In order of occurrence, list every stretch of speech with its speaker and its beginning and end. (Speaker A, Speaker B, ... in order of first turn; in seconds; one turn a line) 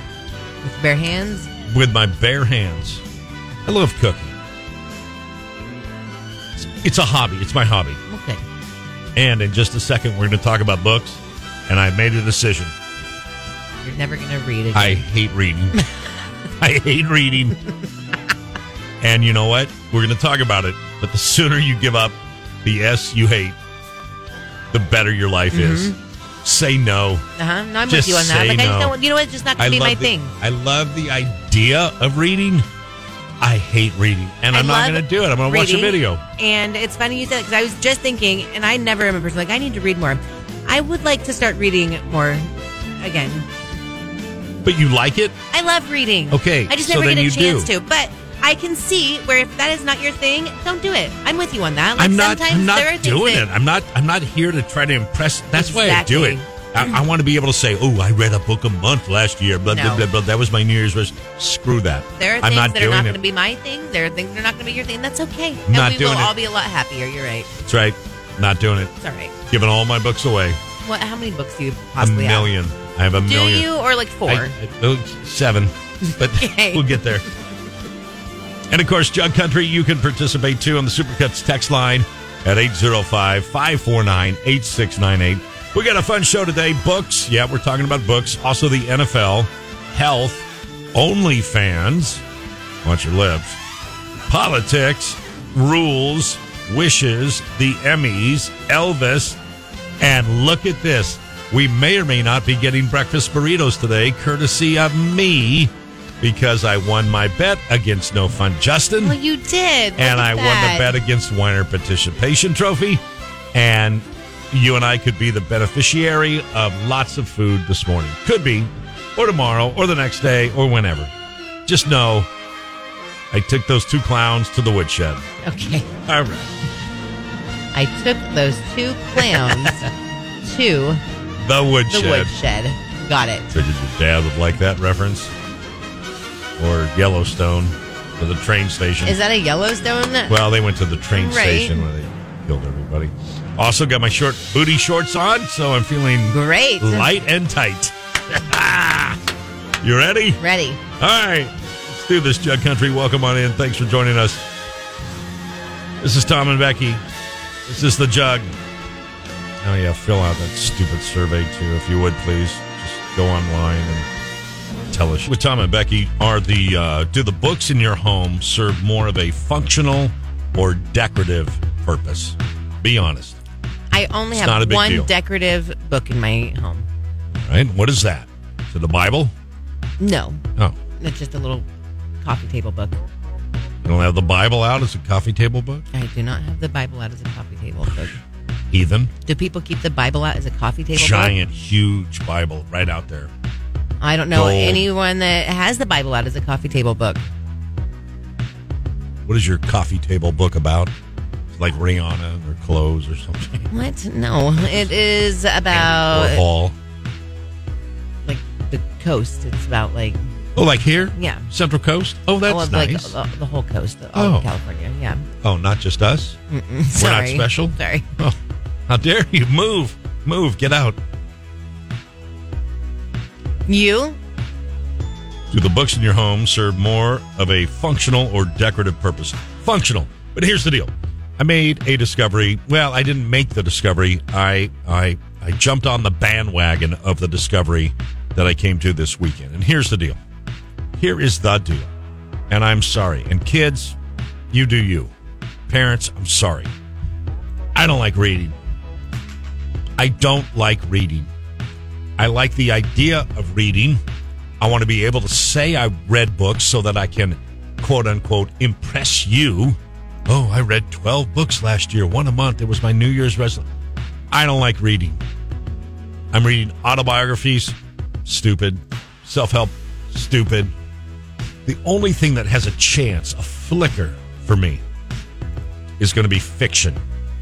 Speaker A: 0.6-1.5
Speaker B: 1.6-3.0
Speaker B: 3.6-4.3
Speaker B: 6.6-8.0
Speaker A: 8.1-8.4
Speaker B: 9.2-12.7
Speaker A: 13.8-15.0
Speaker B: 14.7-15.8
Speaker B: 16.6-17.6
Speaker B: 19.0-23.6
Speaker B: 24.7-27.2
Speaker A: 25.5-25.9
Speaker A: 27.4-30.3
Speaker B: 27.9-28.9
Speaker B: 29.6-32.6
Speaker B: 33.4-36.2
Speaker A: 34.5-42.5
Speaker A: 43.0-43.5
Speaker B: 44.6-45.4
Speaker A: 45.5-53.4
Speaker B: 46.3-47.7
Speaker B: 52.0-63.2
Speaker A: 55.5-56.9
Speaker A: 59.7-60.0
Speaker A: 62.2-67.5
Speaker B: 65.7-66.3
Speaker B: 67.7-68.9
Speaker A: 69.0-69.3
Speaker B: 69.5-70.6
Speaker A: 70.8-72.5
Speaker B: 72.0-73.7
Speaker A: 73.2-74.5
Speaker B: 74.2-77.2
Speaker A: 76.3-77.0
Speaker B: 78.7-92.2
Speaker B: 92.8-93.6
Speaker B: 94.3-99.4
Speaker B: 100.0-109.2
Speaker A: 109.0-110.9
Speaker B: 110.0-113.0
Speaker B: 113.5-121.1
Speaker B: 121.7-122.3
Speaker B: 123.3-125.2
Speaker A: 125.4-125.9
Speaker B: 126.0-126.5
Speaker A: 127.7-129.9
Speaker B: 129.2-129.7
Speaker A: 130.4-131.0
Speaker B: 131.4-132.3
Speaker A: 131.9-133.5
Speaker B: 133.5-135.3
Speaker B: 136.6-139.2
Speaker A: 139.0-140.3
Speaker B: 140.3-149.2
Speaker A: 141.1-141.8
Speaker A: 146.3-147.1
Speaker B: 149.8-150.4
Speaker A: 150.4-150.8
Speaker B: 151.0-154.5
Speaker B: 156.0-157.0
Speaker B: 157.7-158.6
Speaker B: 159.6-164.1
Speaker B: 164.9-173.4
Speaker A: 173.9-176.9
Speaker B: 174.3-175.1
Speaker B: 177.3-179.3
Speaker A: 180.0-180.4
Speaker A: 181.0-181.7
Speaker A: 182.2-183.0
Speaker B: 183.8-185.8
Speaker A: 185.9-188.2
Speaker B: 188.7-189.1
Speaker A: 189.2-191.4
Speaker B: 190.9-193.3
Speaker A: 194.0-197.2
Speaker B: 194.3-194.9
Speaker B: 199.2-200.9
Speaker B: 201.5-203.7
Speaker A: 203.7-206.4
Speaker B: 204.6-204.9
Speaker B: 205.7-206.8
Speaker A: 208.2-210.2
Speaker B: 210.6-213.2
Speaker A: 211.1-211.5
Speaker A: 212.4-215.2
Speaker B: 214.1-214.5
Speaker B: 215.4-216.4
Speaker A: 216.5-218.1
Speaker B: 216.9-218.4
Speaker B: 218.9-221.0
Speaker A: 223.7-224.2
Speaker B: 225.5-240.2
Speaker B: 241.0-241.9
Speaker B: 242.5-243.9
Speaker B: 244.5-245.1
Speaker B: 245.7-246.7
Speaker B: 247.7-248.6
Speaker B: 250.0-251.3
Speaker B: 252.2-254.0
Speaker B: 254.6-263.6
Speaker B: 264.3-265.2
Speaker B: 266.3-270.7
Speaker B: 271.6-274.8
Speaker B: 276.0-277.0